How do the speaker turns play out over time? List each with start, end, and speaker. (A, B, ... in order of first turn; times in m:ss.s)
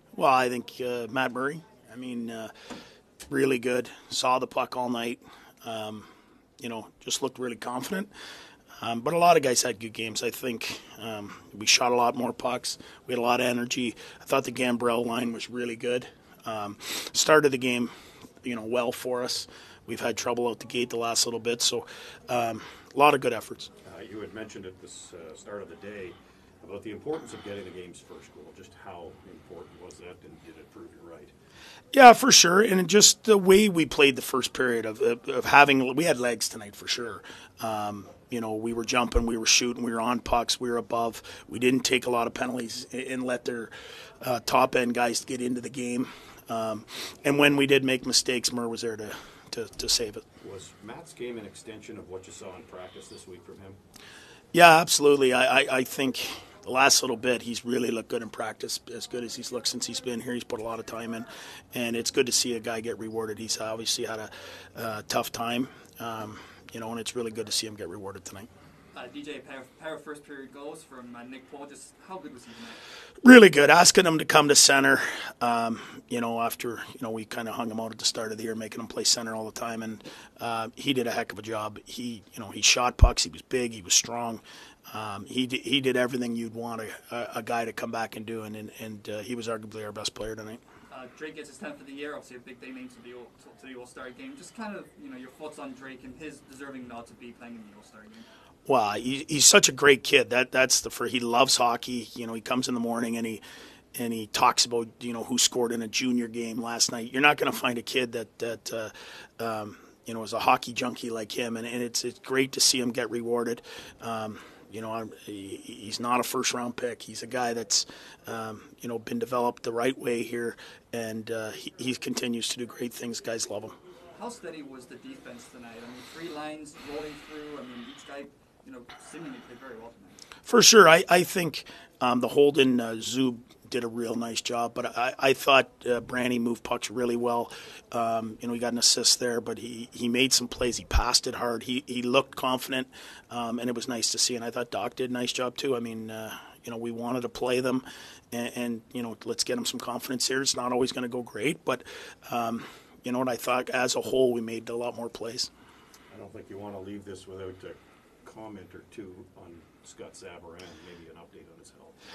0:00.1-0:02.5 A
0:03.3-0:06.1 A
0:06.6-0:08.1 A
0:08.8-0:17.9 A
0:18.4-0:23.7 A
0:23.8-0:31.3 B
0:31.9-0:43.7 A
0:44.2-0:50.2 A
0:50.4-0:53.8 B
0:54.5-1:08.5 A
1:08.9-1:12.8 C
1:13.2-1:30.6 A
1:30.9-1:38.3 C
1:38.7-1:43.4 A
1:44.0-2:03.7 A
2:04.1-2:10.2 C
2:10.4-2:35.5 A
2:36.1-2:42.0 B